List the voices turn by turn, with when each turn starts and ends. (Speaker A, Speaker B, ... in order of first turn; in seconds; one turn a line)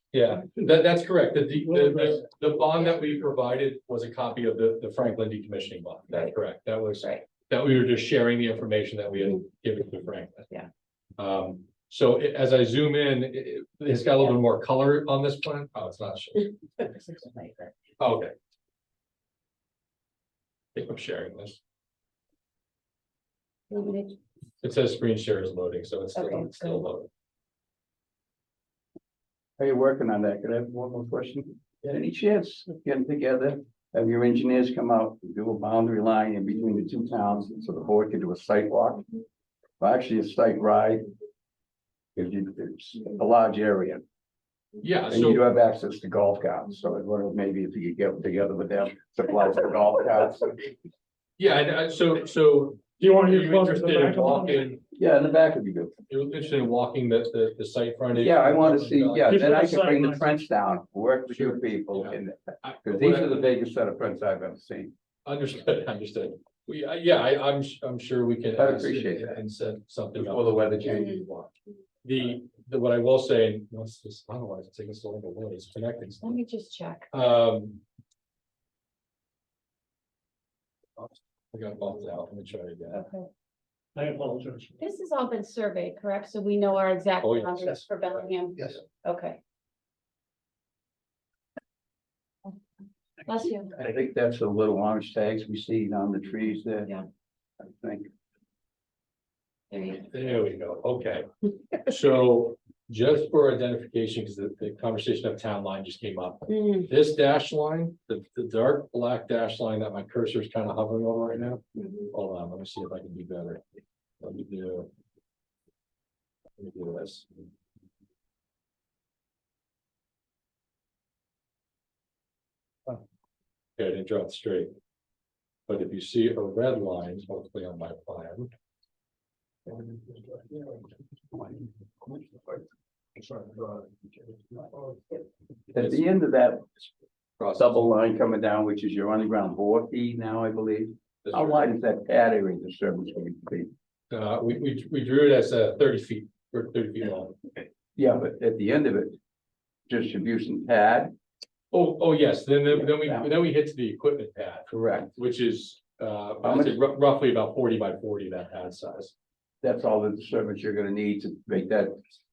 Speaker A: 0.1-10.5
Speaker A: 11.2-16.5
Speaker B: 16.8-17.7
Speaker A: 18.0-18.3
Speaker A: 20.8-21.6
Speaker B: 23.7-24.2
Speaker A: 24.6-27.1
Speaker B: 26.2-26.8
Speaker C: 29.6-39.0
Speaker C: 39.8-41.1
Speaker C: 42.1-44.0
Speaker A: 44.8-45.4
Speaker C: 45.1-50.7
Speaker A: 51.4-54.8
Speaker D: 53.0-54.7
Speaker C: 54.9-55.9
Speaker A: 56.1-59.5
Speaker C: 58.1-64.9
Speaker D: 59.3-60.3
Speaker A: 61.3-63.5
Speaker A: 65.3-71.1
Speaker C: 68.6-69.4
Speaker C: 70.2-71.5
Speaker B: 70.9-71.2
Speaker A: 72.0-76.4
Speaker B: 76.2-77.1
Speaker A: 77.1-77.8
Speaker A: 81.0-83.0
Speaker B: 82.9-83.3
Speaker D: 84.0-84.7
Speaker B: 84.8-89.4
Speaker A: 87.2-87.8
Speaker B: 93.2-93.7
Speaker C: 93.8-96.9
Speaker C: 97.6-98.1
Speaker B: 99.7-100.1
Speaker A: 100.0-113.6
Speaker B: 106.5-106.9
Speaker B: 111.8-112.1
Speaker A: 114.2-114.9
Speaker A: 116.6-117.3
Speaker A: 123.8-124.7
Speaker A: 125.7-128.5
Speaker C: 131.3-132.6
Speaker C: 135.7-136.7
Speaker A: 137.4-137.8
Speaker C: 137.6-143.7
Speaker A: 141.2-141.6
Speaker A: 144.1-147.5
Speaker C: 148.0-149.2
Speaker C: 149.9-151.1
Speaker A: 151.7-159.1
Speaker C: 152.7-153.3
Speaker C: 154.7-155.1
Speaker C: 156.4-156.8
Speaker C: 159.6-162.0